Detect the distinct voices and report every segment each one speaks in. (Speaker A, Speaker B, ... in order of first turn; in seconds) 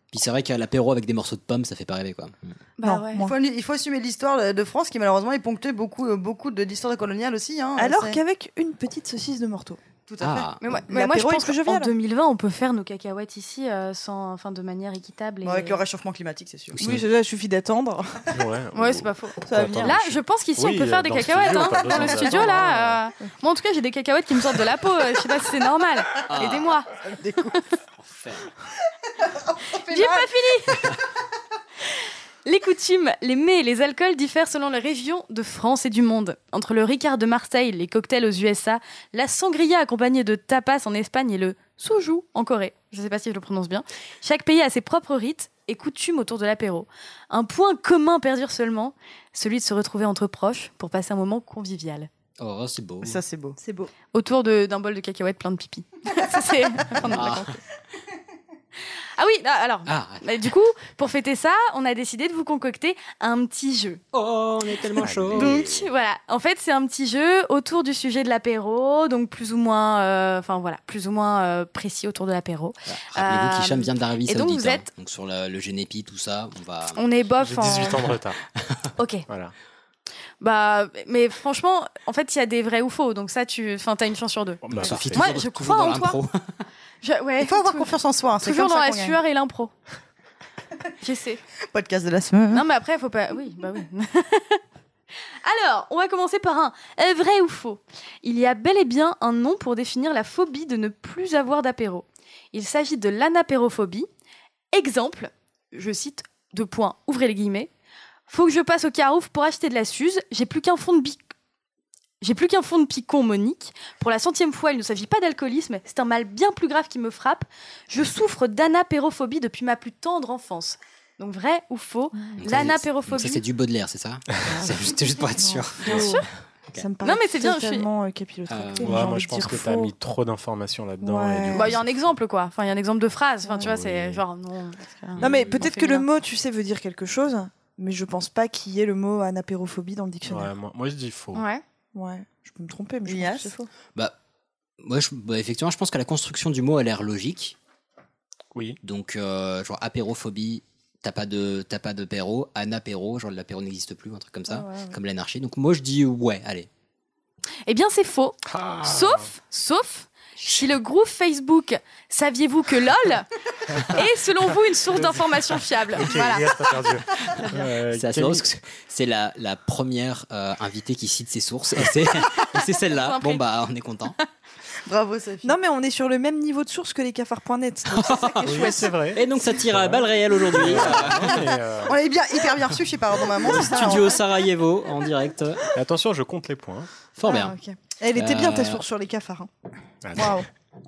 Speaker A: 0.1-2.5, 10.2-10.6, 26.3-26.7, 28.0-28.5, 52.4-53.2, 57.0-57.6, 59.9-60.5, 64.1-65.9, 72.9-77.0, 84.7-86.6, 122.4-126.9, 128.5-129.2, 135.2-135.7, 144.8-147.6, 148.8-156.7, 167.9-174.2, 177.9-181.5, 183.4-185.7, 187.2-187.6, 188.2-188.8
Speaker B: 2.8-3.2, 10.6-15.8, 18.8-26.9, 29.9-30.9, 32.5-52.1, 54.1-57.5, 59.2-64.0, 65.4-74.9, 77.0-78.1, 79.0-79.2, 80.4-86.2, 87.0-87.9, 88.4-89.7, 91.0-91.4, 92.5-94.6, 95.4-104.1, 104.7-107.7, 108.3-111.2, 112.2-123.4, 125.8-126.2, 127.0-127.9, 131.5-136.1, 141.3-141.6, 157.7-163.3, 163.9-166.5, 172.4-173.4
Speaker C: 2.8-3.3, 7.8-9.8, 10.9-11.9, 16.8-18.4, 19.5-19.9, 53.6-53.9, 124.5-126.2, 126.8-129.9, 131.0-131.8, 135.2-140.5, 141.9-143.7, 154.5-155.0, 167.4-167.7, 175.4-179.1, 183.4-183.8, 187.3-189.5, 190.2-190.5
Speaker D: 3.2-8.2, 10.1-10.5, 15.4-16.8, 27.1-27.5, 29.3-30.4, 53.0-53.6, 87.4-89.2, 91.7-92.6, 143.1-143.5, 174.9-175.6, 181.1-184.2
Speaker E: 18.3-23.0, 65.0-65.6, 77.4-78.4, 79.3-79.5, 84.6-85.2, 128.8-132.1, 133.6-134.2, 140.3-141.4, 148.5-148.8, 158.5-159.3, 163.7-164.0, 164.9-168.5, 178.4-181.9, 185.7-186.9, 190.0-190.4